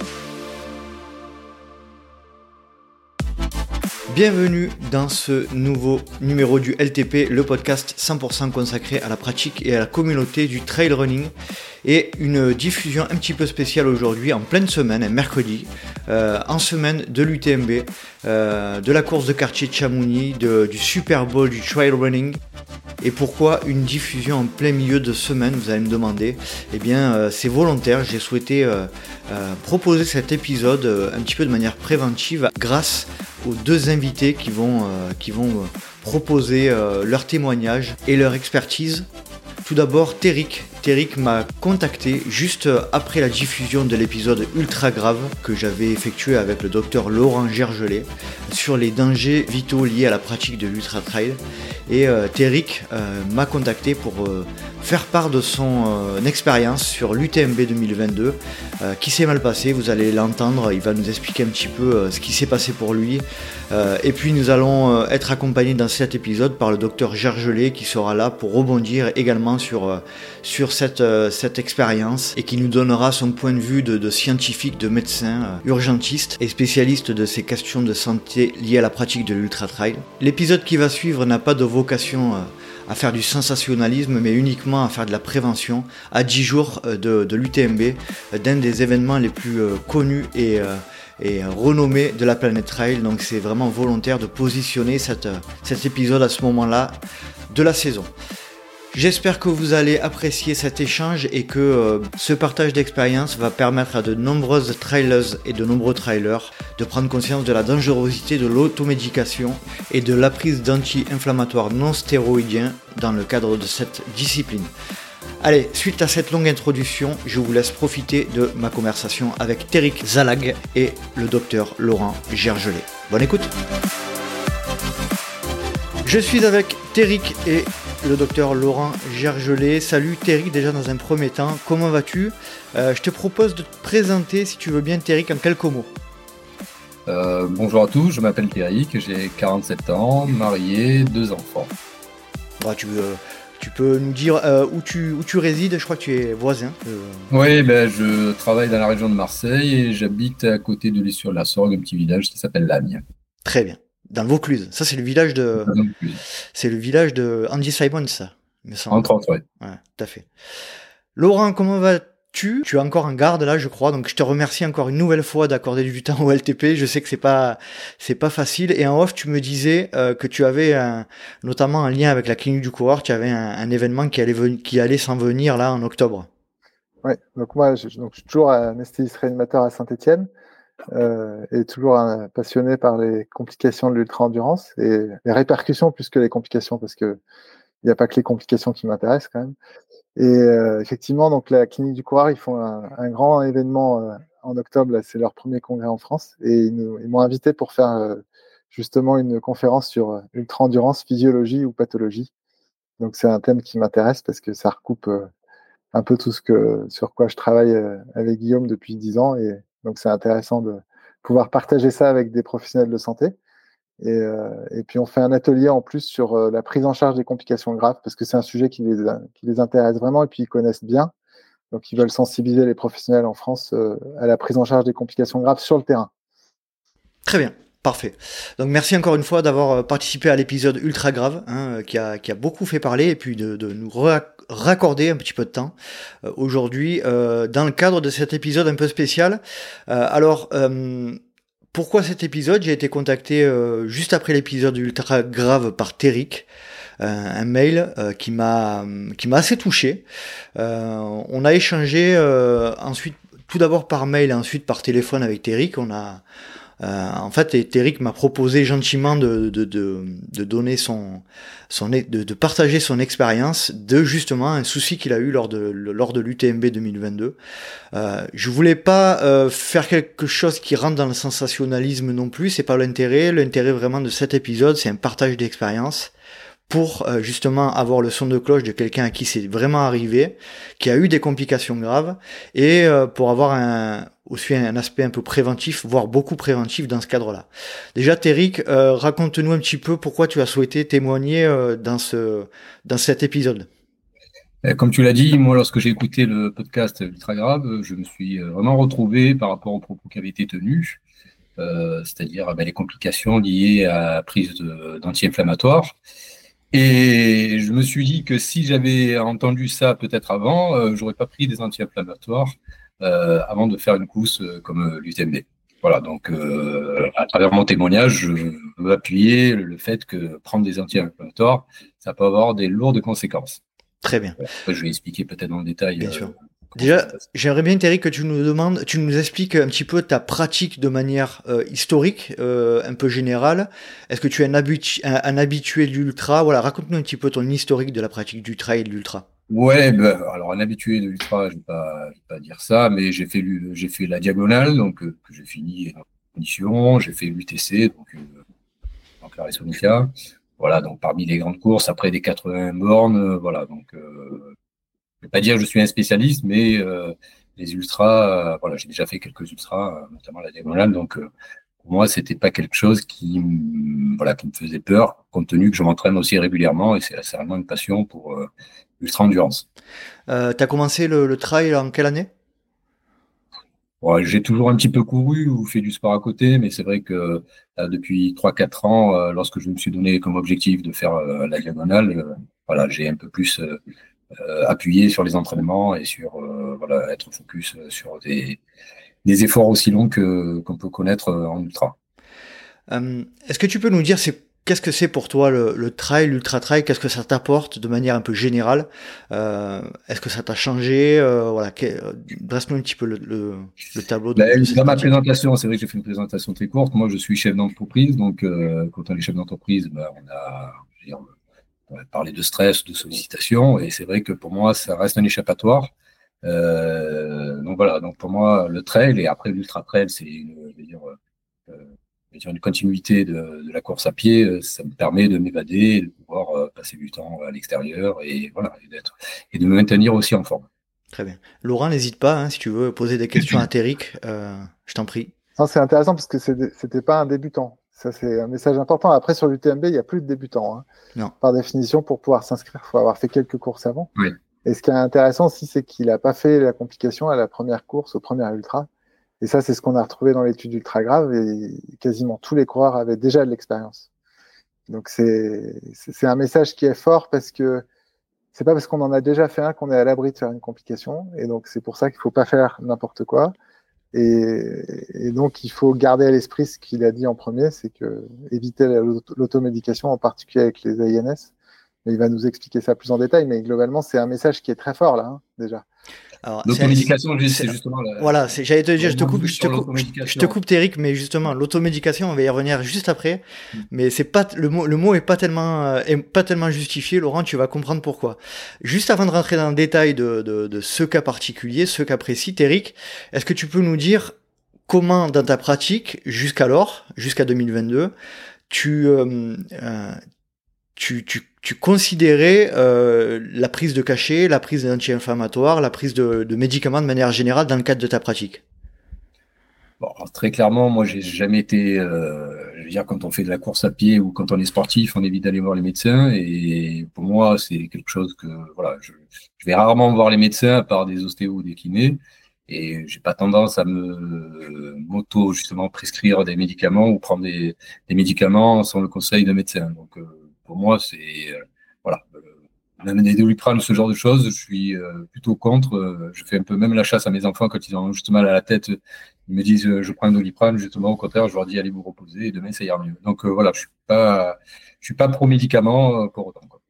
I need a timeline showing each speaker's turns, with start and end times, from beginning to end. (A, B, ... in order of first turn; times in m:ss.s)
0:04.1-0:11.3 A
0:11.8-0:22.4 A
0:23.0-0:39.1 A
0:39.6-1:37.0 A
1:37.5-1:38.1 A
1:38.9-1:54.7 A
1:55.4-2:03.5 A
2:06.0-2:15.9 A
2:17.1-2:21.7 B
2:22.6-2:27.3 A
2:27.3-2:33.0 B
2:33.4-2:35.7 A
2:35.6-2:36.2 B
2:36.5-2:39.1 A
2:38.9-2:39.4 B
2:39.6-2:40.3 A
2:41.2-2:56.3 A
2:57.0-3:00.3 C
3:00.9-3:07.2 C
3:07.8-3:09.5 C
3:10.2-3:22.3 C
3:23.0-3:25.3 C
3:25.9-3:33.3 C
3:34.0-3:41.1 C
3:41.7-3:46.1 C
3:47.2-4:01.2 A
4:01.7-4:06.5 A
4:07.0-4:10.0 A
4:10.6-4:16.2 A
4:16.8-4:27.4 A
4:27.9-4:36.1 A
4:36.7-4:53.7 A
4:54.6-5:01.0 B
5:01.6-5:06.0 B
5:06.7-5:23.6 B
5:24.0-5:24.4 A
5:24.5-5:27.0 B
5:26.0-5:39.2 A
5:39.5-5:48.3 B
5:49.2-5:54.5 B
5:55.2-6:01.3 B
6:01.8-6:08.5 B
6:09.0-6:09.6 B
6:10.3-6:12.3 A
6:14.0-6:23.8 B
6:24.4-6:28.6 B
6:29.2-6:31.9 B
6:32.9-6:45.2 A
6:44.4-6:51.3 B
6:51.9-6:55.9 B
6:56.4-7:01.1 B
7:01.7-7:10.7 B
7:11.1-7:15.3 A
7:15.6-7:20.8 C
7:21.4-7:24.1 C
7:24.6-7:28.9 C
7:29.4-7:34.1 C
7:34.9-7:37.8 C
7:38.5-7:43.5 C
7:44.1-7:51.5 C
7:52.0-7:55.8 C
7:56.4-8:14.3 A
7:56.6-8:00.6 B
8:14.9-8:18.1 A
8:18.7-8:20.2 A
8:21.0-8:28.6 A
8:30.0-8:52.4 B
8:53.0-9:06.8 B